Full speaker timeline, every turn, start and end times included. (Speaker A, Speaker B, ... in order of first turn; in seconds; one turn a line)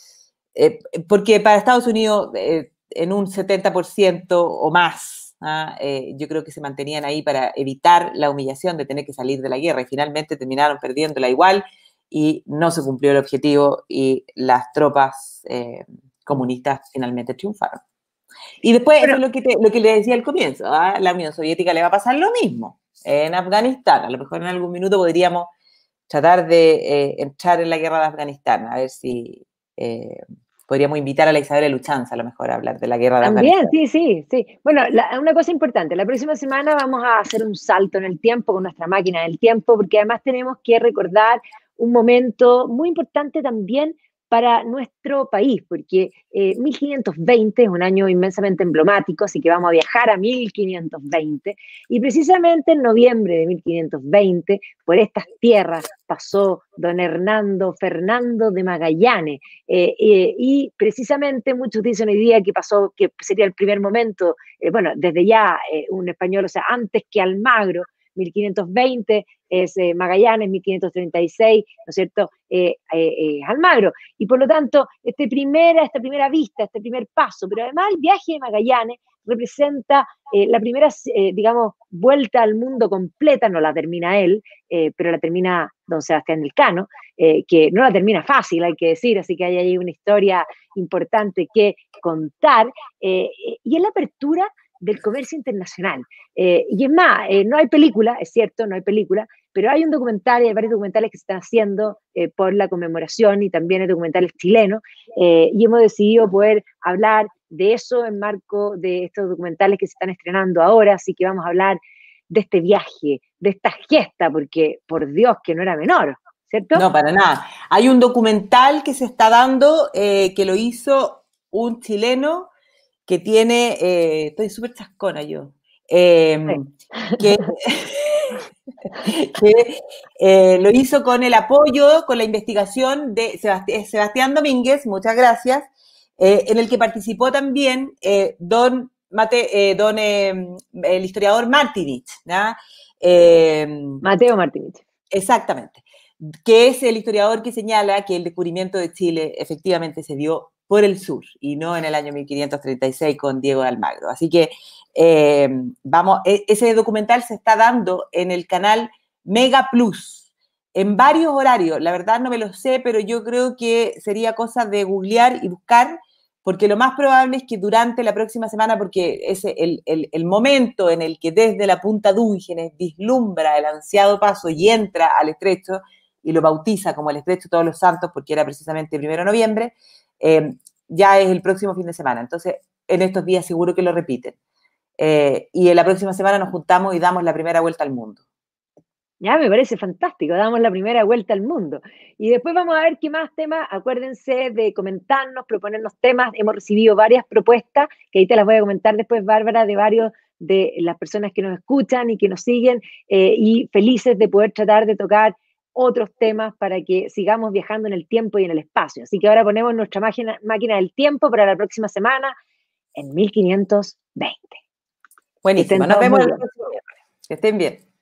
Speaker A: 0.5-17.8
Speaker A: 18.6-25.5
Speaker A: 26.1-33.7
Speaker B: 33.2-116.8
Speaker A: 116.7-122.5
Speaker A: 123.1-128.4
Speaker B: 126.5-127.5
Speaker A: 128.9-144.0
Speaker B: 144.0-144.8
Speaker A: 145.1-184.3
Speaker A: 185.0-188.2
Speaker B: 189.2-212.3
Speaker B: 212.9-214.6
Speaker A: 215.4-217.8
Speaker B: 215.6-216.4